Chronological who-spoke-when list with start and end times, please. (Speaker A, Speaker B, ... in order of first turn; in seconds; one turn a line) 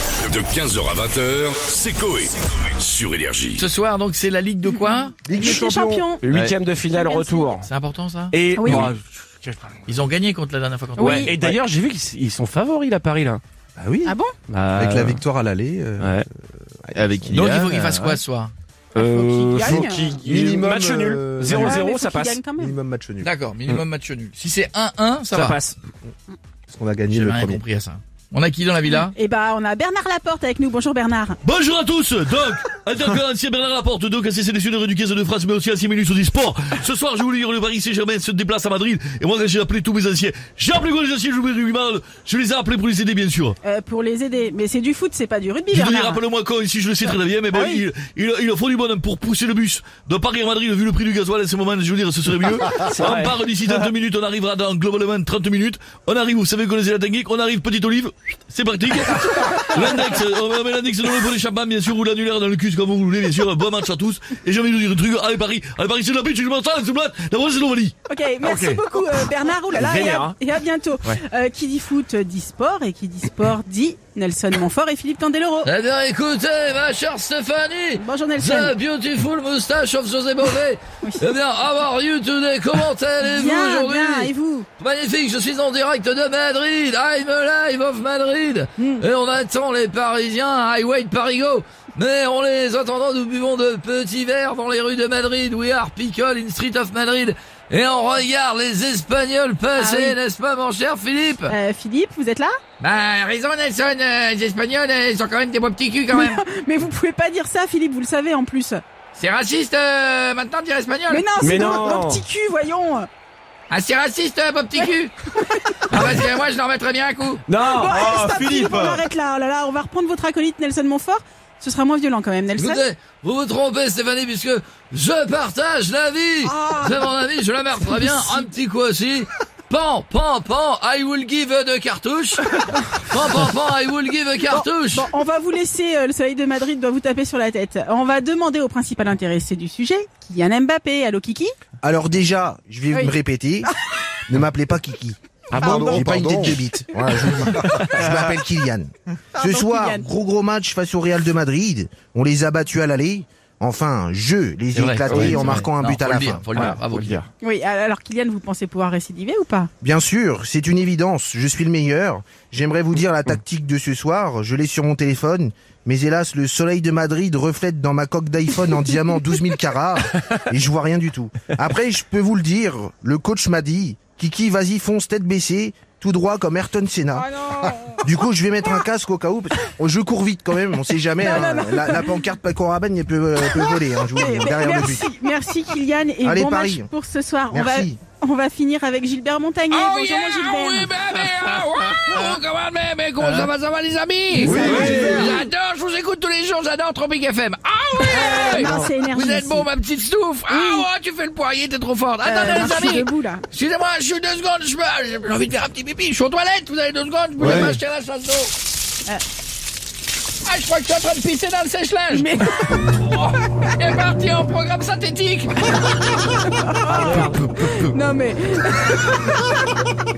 Speaker A: 0.2-3.7
Speaker B: 3.6-5.2
Speaker C: 4.7-6.2
Speaker D: 5.3-6.6
Speaker E: 6.2-7.7
Speaker C: 6.9-7.5
Speaker B: 7.6-8.9
Speaker E: 8.3-9.7
Speaker C: 8.6-8.9
Speaker B: 9.9-11.4
Speaker C: 11.0-11.3
Speaker E: 11.0-13.4
Speaker D: 13.8-14.1
Speaker C: 14.0-14.3
Speaker E: 14.5-15.2
Speaker D: 14.8-17.5
Speaker E: 16.0-16.2
Speaker E: 17.0-18.2
Speaker B: 17.3-18.5
Speaker C: 18.9-20.2
Speaker E: 18.9-22.4
Speaker D: 20.2-21.8
Speaker C: 21.5-22.8
Speaker D: 22.6-23.3
Speaker B: 23.2-25.6
Speaker E: 25.3-25.7
Speaker D: 26.7-27.6
Speaker B: 27.1-29.1
Speaker C: 28.9-31.4
Speaker F: 31.4-43.5
Speaker C: 43.6-46.2
Speaker F: 45.7-67.9
Speaker C: 47.0-47.8
Speaker E: 52.9-53.3
Speaker C: 68.1-75.7
Speaker E: 68.5-68.7
Speaker E: 69.7-70.4
Speaker B: 75.6-101.5
Speaker C: 78.0-78.8
Speaker C: 81.0-81.3
Speaker C: 83.2-84.7
Speaker C: 88.8-89.0
Speaker C: 99.8-100.2
Speaker C: 101.5-102.6
Speaker B: 102.8-106.4
Speaker C: 106.1-108.8
Speaker B: 109.2-111.3
Speaker C: 111.1-113.1
Speaker E: 111.4-112.2
Speaker B: 113.7-115.2
Speaker C: 115.3-116.0
Speaker B: 115.9-117.4
Speaker E: 117.5-119.0
Speaker C: 117.6-122.8
Speaker B: 122.6-135.1
Speaker C: 126.4-127.0
Speaker C: 127.8-128.5
Speaker C: 134.5-141.5
Speaker D: 141.8-143.7
Speaker C: 142.9-143.7
Speaker D: 144.3-156.5
Speaker E: 145.5-146.6
Speaker C: 145.5-146.2
Speaker C: 149.3-150.1
Speaker B: 154.8-157.2
Speaker E: 155.1-155.6
Speaker E: 156.5-157.2
Speaker C: 157.4-159.7
Speaker D: 159.8-185.1
Speaker C: 177.2-178.0
Speaker C: 181.2-182.1
Speaker C: 183.5-190.9
Speaker D: 186.2-186.9
Speaker D: 187.5-188.0
Speaker B: 189.7-208.5
Speaker E: 194.4-195.3
Speaker C: 194.4-195.4
Speaker C: 198.0-199.7
Speaker C: 200.5-200.9
Speaker C: 202.2-203.5
Speaker C: 207.4-207.7
Speaker E: 207.4-207.7
Speaker B: 210.4-215.6
Speaker C: 212.1-212.8
Speaker C: 216.4-219.9
Speaker E: 216.9-217.4